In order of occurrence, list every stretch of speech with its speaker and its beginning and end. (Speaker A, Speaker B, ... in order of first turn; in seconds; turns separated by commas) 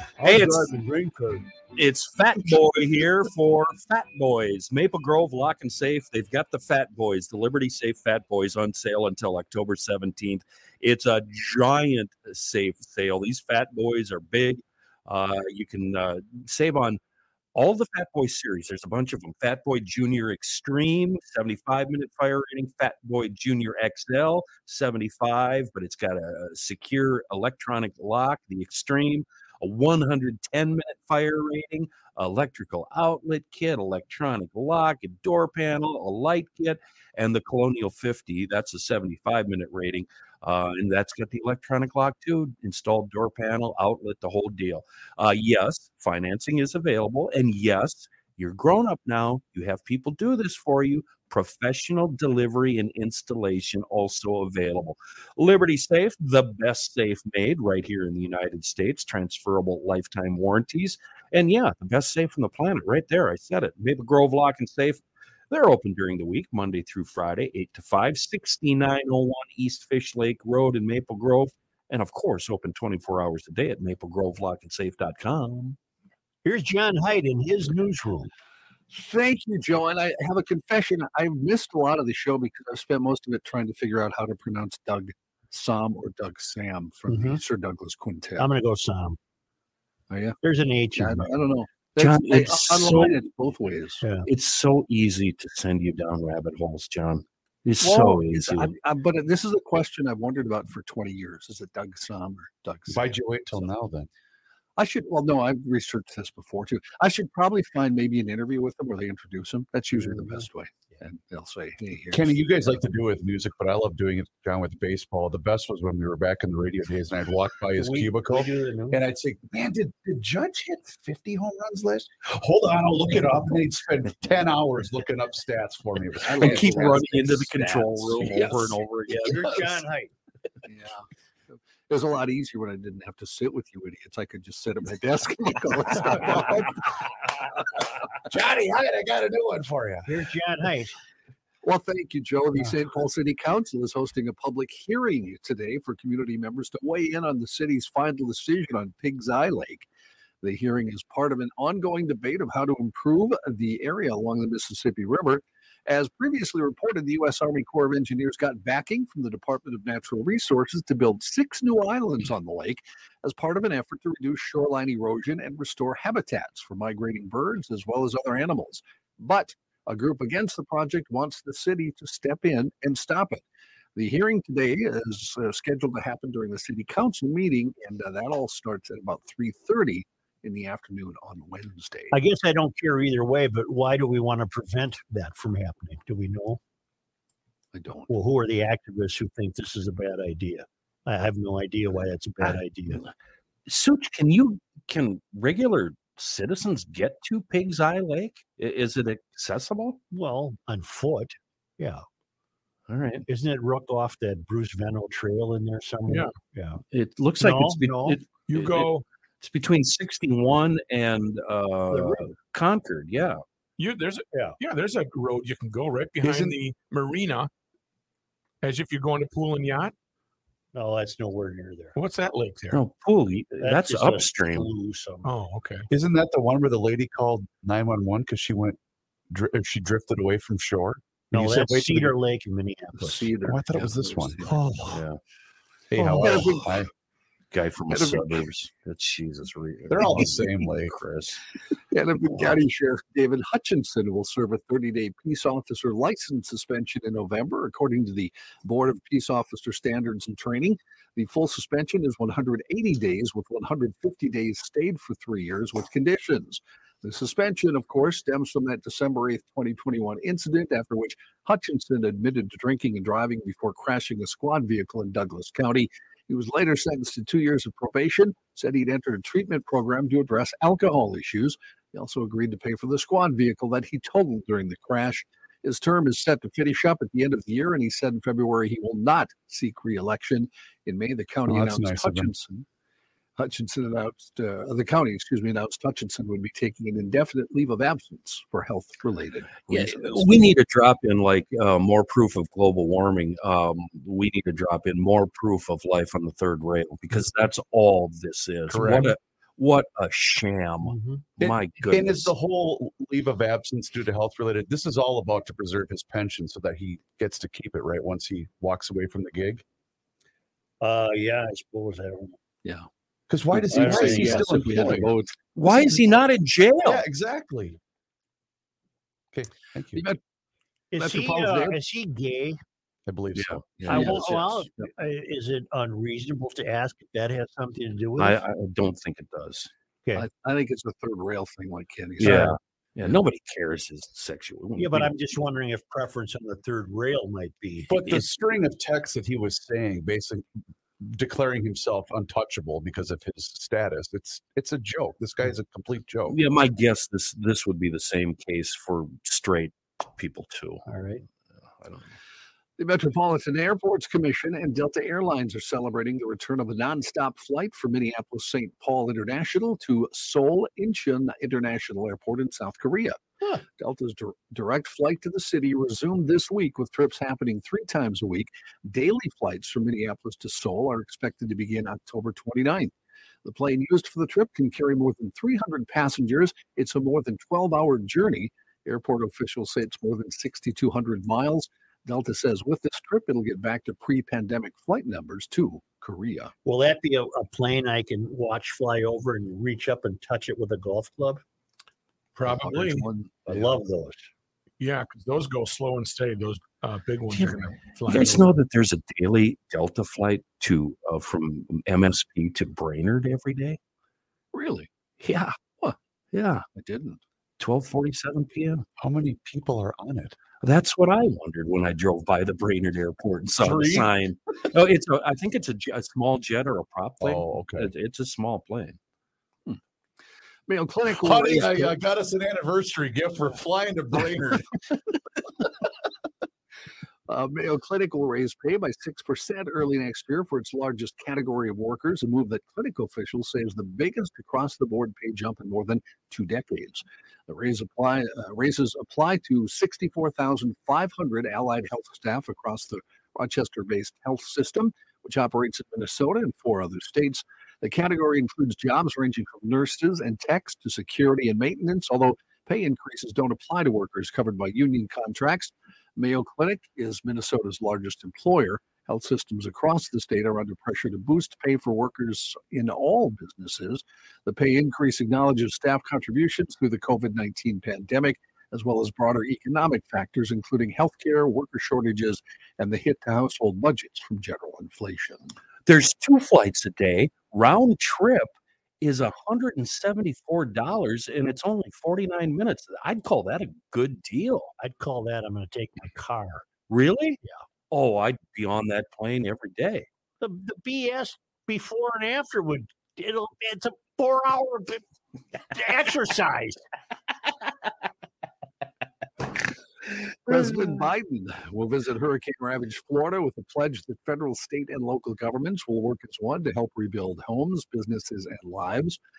Speaker A: 0.2-1.5, Speaker B: 0.2-0.7, Speaker B: 1.8-17.0, Speaker B: 17.6-75.8, Speaker A: 76.5-78.3, Speaker C: 78.9-88.5, Speaker A: 87.1-87.4, Speaker A: 88.4-89.2, Speaker C: 90.1-90.4, Speaker A: 90.4-91.3, Speaker C: 91.0-94.0, Speaker B: 92.0-93.2, Speaker A: 94.0-94.3, Speaker B: 94.2-98.7, Speaker C: 97.8-103.7, Speaker D: 102.9-104.1, Speaker C: 104.8-112.8, Speaker A: 109.9-110.4, Speaker D: 112.1-127.1, Speaker A: 117.8-119.0, Speaker C: 126.2-128.8, Speaker B: 126.3-129.8, Speaker A: 129.1-130.1, Speaker C: 130.6-137.1, Speaker D: 138.3-140.1, Speaker A: 140.1-140.9, Speaker C: 141.6-149.9, Speaker C: 150.4-173.4, Speaker C: 174.0-182.2, Speaker A: 182.1-186.6, Speaker C: 187.7-188.1, Speaker A: 188.1-193.0, Speaker B: 192.4-193.1, Speaker B: 193.7-200.0, Speaker A: 200.1-202.0, Speaker B: 202.9-203.3, Speaker A: 203.3-206.8, Speaker B: 206.9-213.4, Speaker A: 207.4-208.2, Speaker E: 208.5-209.1, Speaker A: 211.9-212.3, Speaker E: 213.8-217.5, Speaker D: 216.2-216.6, Speaker E: 218.6-219.9, Speaker A: 220.7-221.9, Speaker E: 222.0-222.8, Speaker B: 222.7-224.7, Speaker A: 223.6-225.3, Speaker E: 225.2-225.9, Speaker D: 225.9-228.8, Speaker D: 229.3-232.1, Speaker A: 231.3-233.3, Speaker C: 233.0-234.6, Speaker D: 233.4-235.0, Speaker B: 234.9-235.2, Speaker D: 235.9-236.9, Speaker C: 236.0-236.9, Speaker B: 236.1-236.5, Speaker B: 237.5-241.4, Speaker C: 237.9-238.3, Speaker D: 239.9-241.0, Speaker C: 241.9-282.6, Speaker B: 242.3-242.6, Speaker D: 281.5-282.3, Speaker C: 283.4-290.5, Speaker B: 289.7-302.3, Speaker D: 298.7-299.2, Speaker A: 300.8-301.2, Speaker D: 301.4-309.6, Speaker A: 310.8-312.4, Speaker D: 313.3-315.1, Speaker C: 313.5-315.5, Speaker A: 313.7-315.0, Speaker B: 315.6-317.0, Speaker D: 316.8-317.8, Speaker D: 319.3-320.0, Speaker C: 319.9-320.2, Speaker A: 320.9-322.6, Speaker C: 321.0-321.8, Speaker D: 323.1-324.1, Speaker B: 323.4-324.1, Speaker C: 323.8-324.9, Speaker A: 323.9-328.4, Speaker B: 328.2-329.7, Speaker C: 330.1-332.6, Speaker B: 332.2-335.1, Speaker A: 332.2-332.5, Speaker A: 334.8-338.0, Speaker D: 337.9-340.5, Speaker D: 341.0-346.4, Speaker B: 346.3-350.8, Speaker A: 350.9-351.2, Speaker B: 351.7-352.1, Speaker C: 352.8-363.2, Speaker C: 363.8-372.9, Speaker C: 373.4-386.5, Speaker A: 386.6-391.4, Speaker E: 392.4-393.1, Speaker C: 392.4-393.7, Speaker A: 393.5-394.2, Speaker E: 394.8-398.5, Speaker B: 397.3-403.8, Speaker C: 404.5-404.9, Speaker B: 405.2-405.6, Speaker B: 406.3-406.6, Speaker C: 406.7-407.2, Speaker B: 407.6-408.9, Speaker D: 409.0-410.4, Speaker B: 410.6-419.0, Speaker D: 413.6-414.1, Speaker D: 417.2-417.9, Speaker C: 420.7-422.0, Speaker D: 421.1-424.7, Speaker C: 427.3-475.5, Speaker B: 475.9-484.7, Speaker A: 484.8-486.6, Speaker B: 486.9-487.4, Speaker B: 487.9-490.1, Speaker A: 490.4-495.0, Speaker A: 495.6-496.8, Speaker C: 500.4-509.2